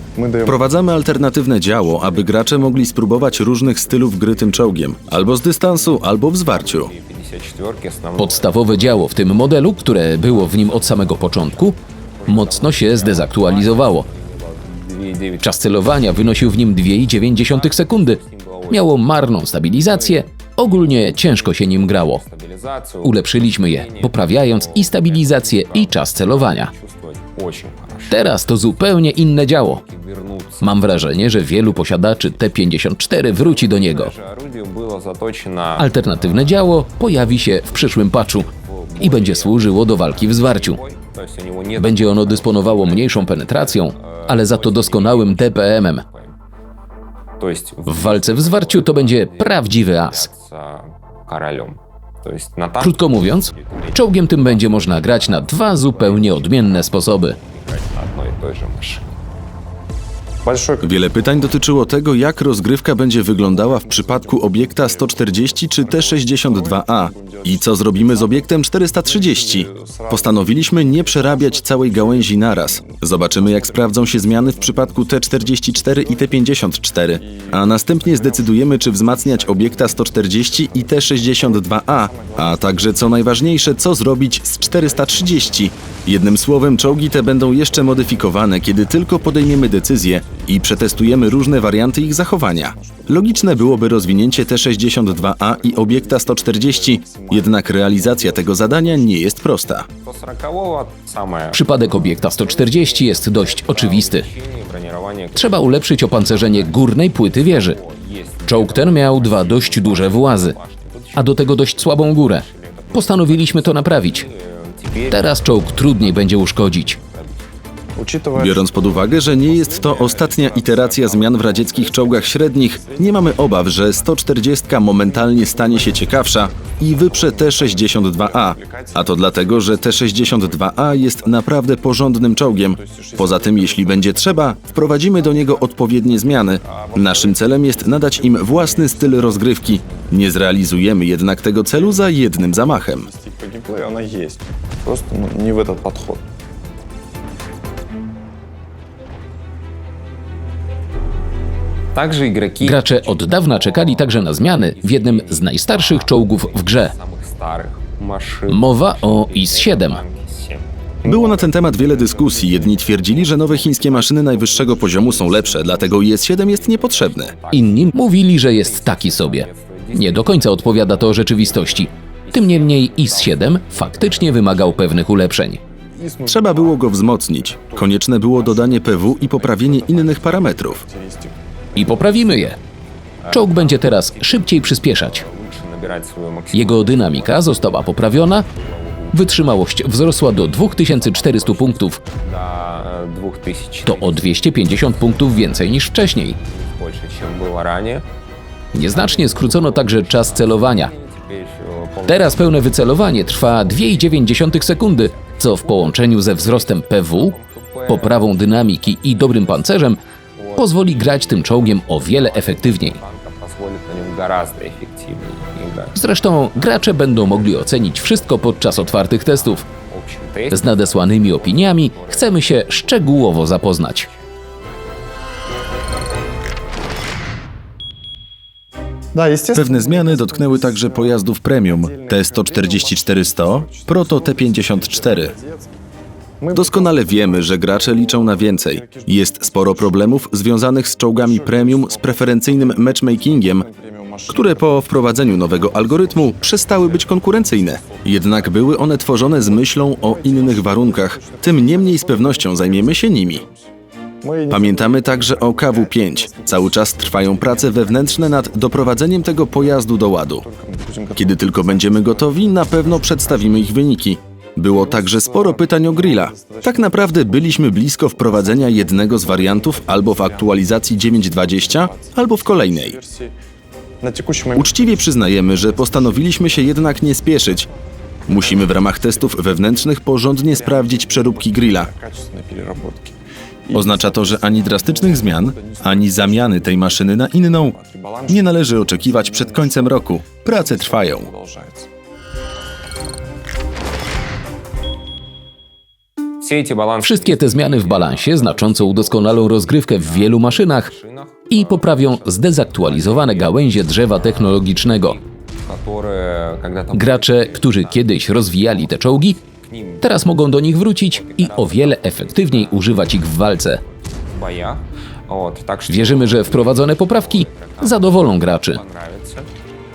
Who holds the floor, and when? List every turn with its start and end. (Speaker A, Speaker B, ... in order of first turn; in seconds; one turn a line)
Speaker A: 0.2-0.7
Speaker B: 0.5-6.9
Speaker C: 1.6-8.8
Speaker D: 8.2-11.8
Speaker C: 10.2-16.6
Speaker D: 12.3-14.1
Speaker D: 15.4-22.2
Speaker C: 17.4-19.1
Speaker C: 19.8-28.3
Speaker D: 23.0-26.7
Speaker D: 28.1-29.8
Speaker C: 29.6-31.0
Speaker D: 30.6-34.1
Speaker C: 33.3-36.7
Speaker D: 35.8-40.8
Speaker C: 38.3-46.4
Speaker D: 41.8-46.0
Speaker C: 47.4-59.1
Speaker D: 47.9-50.3
Speaker D: 52.8-57.4
Speaker A: 60.5-61.0
Speaker B: 60.8-99.9
Speaker A: 63.4-68.5
Speaker A: 69.0-76.5
Speaker A: 77.2-83.8
Speaker A: 84.6-85.7
Speaker A: 86.8-99.3
Speaker C: 100.0-117.5
Speaker D: 101.5-104.3
Speaker D: 105.3-107.8
Speaker D: 108.5-110.6
Speaker D: 111.2-114.3
Speaker D: 115.1-117.0
Speaker A: 118.0-120.9
Speaker B: 118.4-143.1
Speaker C: 119.8-121.5
Speaker A: 121.4-124.2
Speaker A: 124.9-140.1
Speaker A: 142.6-146.2
Speaker C: 151.9-160.7
Speaker D: 152.6-156.9
Speaker D: 158.5-160.0
Speaker A: 161.0-165.9
Speaker B: 161.1-167.3
Speaker C: 164.8-175.3
Speaker D: 167.5-175.6
Speaker A: 175.9-181.3
Speaker B: 176.3-180.8
Speaker D: 181.8-182.6
Speaker C: 181.8-182.4
Speaker C: 183.2-189.5
Speaker D: 183.3-185.2
Speaker D: 186.5-188.5
Speaker D: 189.1-192.0
Speaker C: 190.2-198.1
Speaker D: 193.8-196.4
Speaker D: 198.7-200.9
Speaker C: 198.9-216.0
Speaker D: 202.1-207.3
Speaker D: 207.9-210.0
Speaker D: 210.6-213.0
Speaker D: 215.9-219.6
Speaker C: 216.5-217.5
Speaker C: 218.3-224.2
Speaker D: 220.5-224.1
Speaker A: 229.1-235.7
Speaker B: 229.6-235.3
Speaker A: 236.4-240.2
Speaker B: 236.5-243.7
Speaker A: 241.2-248.7
Speaker B: 244.3-253.5
Speaker A: 249.4-253.7
Speaker A: 254.2-259.8
Speaker B: 254.5-260.4
Speaker A: 260.4-263.7
Speaker B: 261.2-273.0
Speaker A: 264.8-270.8
Speaker A: 271.4-273.3
Speaker A: 274.0-277.7
Speaker B: 274.6-277.6
Speaker A: 278.3-279.9
Speaker B: 278.3-281.9
Speaker A: 280.5-291.9
Speaker B: 283.7-287.8
Speaker B: 288.3-291.3
Speaker C: 296.4-319.5
Speaker D: 297.0-300.9
Speaker D: 301.5-305.2
Speaker D: 306.9-309.4
Speaker D: 310.0-313.8
Speaker D: 315.9-318.8